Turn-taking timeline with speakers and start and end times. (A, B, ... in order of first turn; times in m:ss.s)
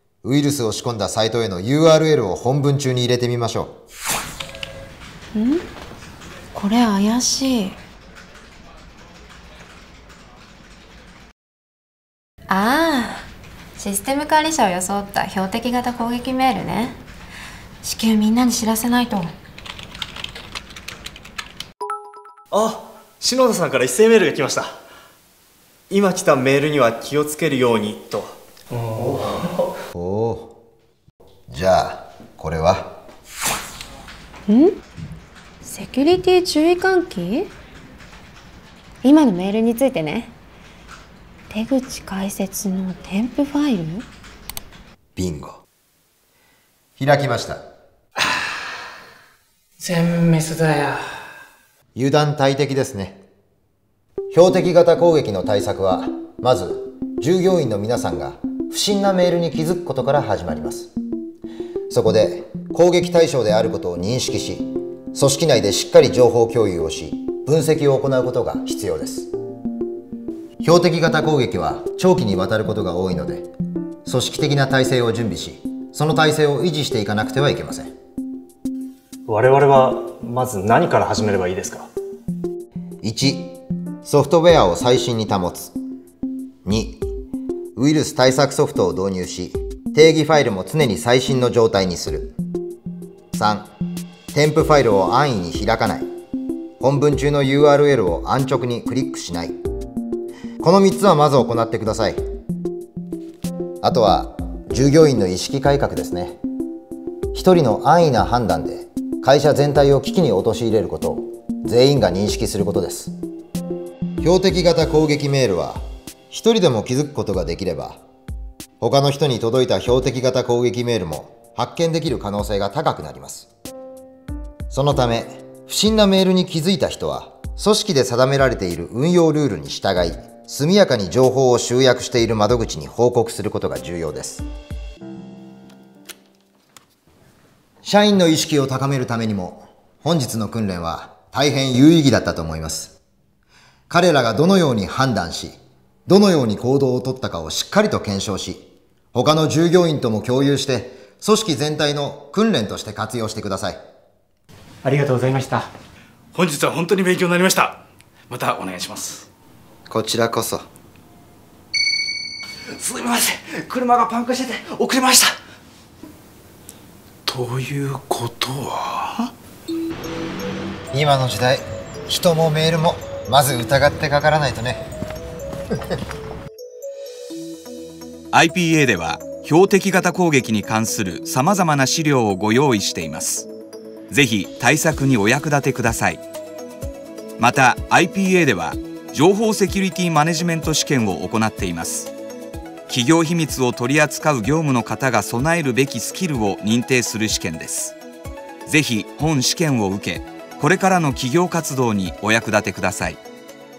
0:00.2-0:03.8 A
0:05.3-0:05.6 B
0:06.5-0:07.8 B
0:12.5-0:17.0 B
0:17.8-0:19.3 B
0:22.5-0:24.8 C
0:25.9-0:28.4 C
0:29.9-0:30.6 A
0:31.5-0:33.0 A
0:34.5-0:34.8 B
0:35.6-0:37.5 B
0:39.0-0:40.3 B
0:41.5-0:44.1 B
0:45.2-0:45.6 A
0:47.0-0:47.6 A
0:49.8-0:51.0 D
0:52.0-0:53.2 A
0:54.3-1:00.9 A
1:01.9-1:09.3 A
1:10.6-1:13.5 A
1:14.1-1:17.9 A
1:19.3-1:21.9 C
1:23.0-1:25.7 A
1:26.6-1:27.0 A
1:27.8-1:32.4 A
1:33.3-1:33.7 A
1:34.3-1:36.1 A
1:36.8-1:39.6 A
1:40.6-1:42.2 A
1:43.8-1:46.4 A
1:47.3-1:53.2 A
1:54.2-1:58.0 A
1:58.8-2:03.5 A
2:04.7-2:14.4 A
2:17.8-2:23.0 A
2:23.9-2:33.8 A
2:34.8-2:35.7 D
2:36.4-2:37.4 E
2:38.3-2:39.0 E
2:39.9-2:40.6 A
2:44.0-2:45.2 E
2:47.3-2:48.7 E
2:50.9-2:54.8 A
2:58.3-3:03.5 F
3:04.1-3:06.2 F
3:07.4-3:12.1 F
3:12.9-3:18.0 F
3:18.7-3:23.2 F